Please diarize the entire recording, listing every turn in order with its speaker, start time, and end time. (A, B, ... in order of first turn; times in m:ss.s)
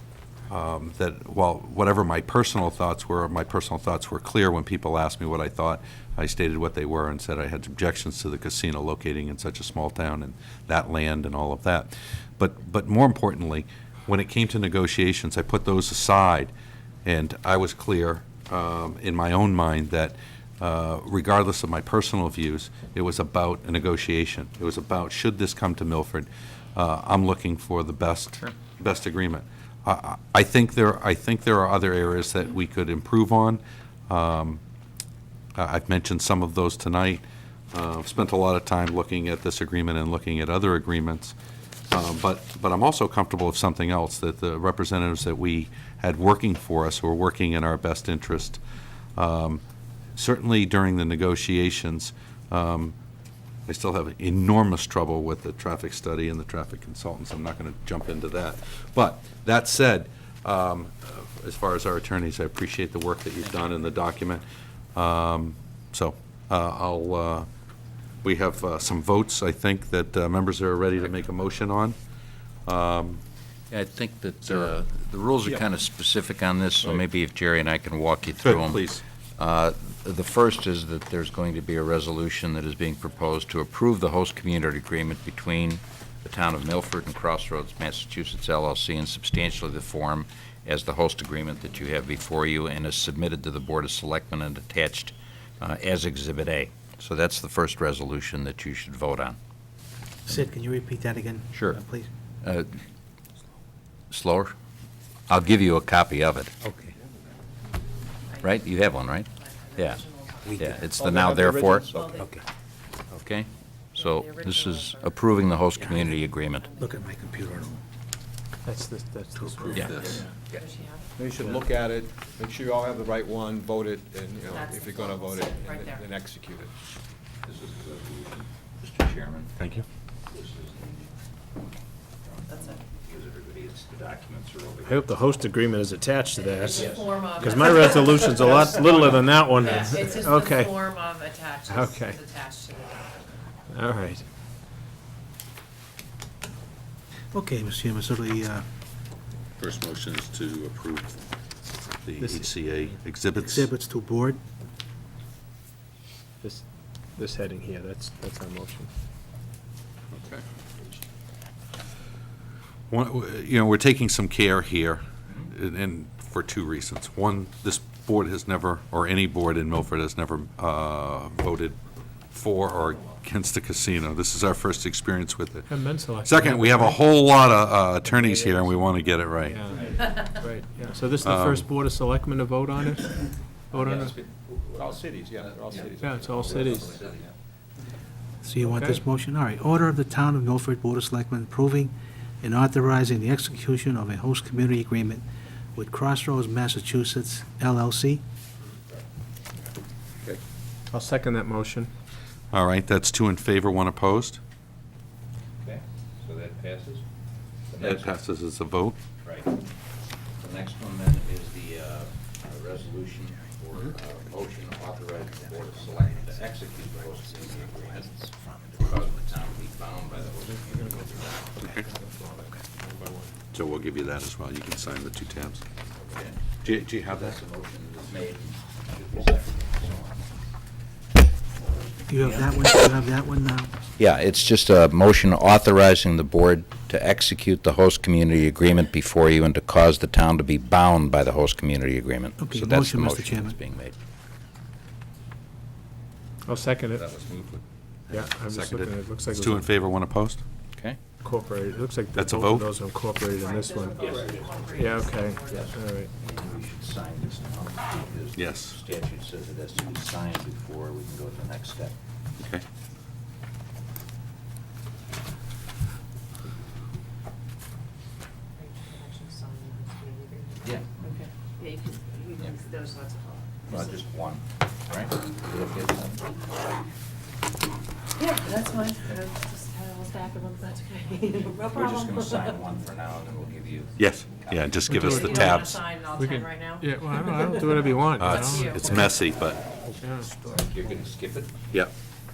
0:00.5-0:16.5 A
0:17.0-0:34.6 A
0:35.6-0:41.4 A
0:41.9-0:48.6 A
0:49.2-0:49.6 A
0:50.2-0:53.0 A
0:53.7-1:04.4 A
1:05.0-1:07.5 A
1:08.2-1:12.0 A
1:12.7-1:13.2 A
1:13.7-1:18.9 B
1:18.4-1:19.0 A
1:19.4-1:39.4 B
1:40.3-1:42.1 C
1:41.5-1:41.8 B
1:42.4-1:42.8 B
1:44.1-1:44.5 B
1:45.3-1:46.6 B
1:46.6-1:46.9 C
1:48.4-1:50.0 B
1:49.4-1:50.7 D
1:50.4-1:50.8 C
1:50.6-1:52.3 B
1:51.0-1:51.9 E
1:51.9-1:52.3 D
1:53.1-1:56.7 B
1:54.0-1:55.2 D
1:56.6-1:56.9 D
1:56.8-1:57.8 C
1:58.6-1:59.9 F
1:59.4-2:00.2 C
1:59.8-2:00.6 B
2:00.0-2:00.3 E
2:00.1-2:01.1 D
2:01.2-2:06.7 E
2:04.5-2:06.1 D
2:07.4-2:09.5 B
2:09.6-2:09.8 A
2:10.3-2:11.1 B
2:12.2-2:15.4 B
2:12.5-2:12.8 D
2:14.8-2:16.9 F
2:16.5-2:18.8 D
2:16.7-2:17.7 B
2:17.4-2:20.8 F
2:19.5-2:20.0 B
2:19.5-2:23.4 D
2:21.7-2:22.2 F
2:23.7-2:24.2 F
2:27.3-2:28.6 C
2:29.6-2:31.2 A
2:32.0-2:33.7 A
2:32.2-2:32.9 F
2:33.4-2:34.4 C
2:37.2-2:38.9 F
2:40.1-2:40.4 A
2:42.9-2:51.8 A
2:52.3-2:59.6 A
2:55.7-2:57.0 F
2:58.2-2:58.7 F
2:59.5-2:59.8 E
2:59.7-3:00.2 B
3:00.3-3:03.2 F
3:01.2-3:01.7 A
3:03.7-3:04.2 F
3:03.7-3:07.3 B
3:04.7-3:07.0 E
3:06.0-3:06.8 F
3:08.4-3:15.2 C
3:08.6-3:09.0 F
3:15.8-3:18.2 C
3:20.9-3:21.9 F
3:22.5-3:24.4 A
3:25.6-3:27.0 B
3:27.7-3:28.2 B
3:27.8-3:29.0 A
3:29.2-3:29.5 B
3:30.4-3:41.8 B
3:41.6-3:41.9 A
3:41.8-3:43.4 E
3:43.5-3:45.6 A
3:46.1-3:50.2 B
3:46.6-3:47.4 A
3:52.1-3:53.7 C
3:54.0-4:04.0 B
4:02.4-4:03.6 C
4:06.5-4:07.0 F
4:07.0-4:10.4 A
4:08.1-4:09.7 F
4:11.2-4:14.1 F
4:12.2-4:12.7 A
4:13.3-4:15.8 D
4:13.9-4:15.0 B
4:14.7-4:16.1 F
4:15.5-4:21.9 B
4:18.4-4:18.8 A
4:22.4-4:22.6 A
4:28.6-4:33.8 D
4:30.6-4:31.0 B
4:33.7-4:36.6 B
4:38.2-4:42.2 D
4:41.6-4:45.5 B
4:44.0-4:45.8 A
4:44.9-4:45.6 F
4:45.2-4:49.0 D
4:46.2-4:48.9 F
4:48.2-4:49.6 A
4:50.0-4:50.3 F
4:50.3-4:51.5 B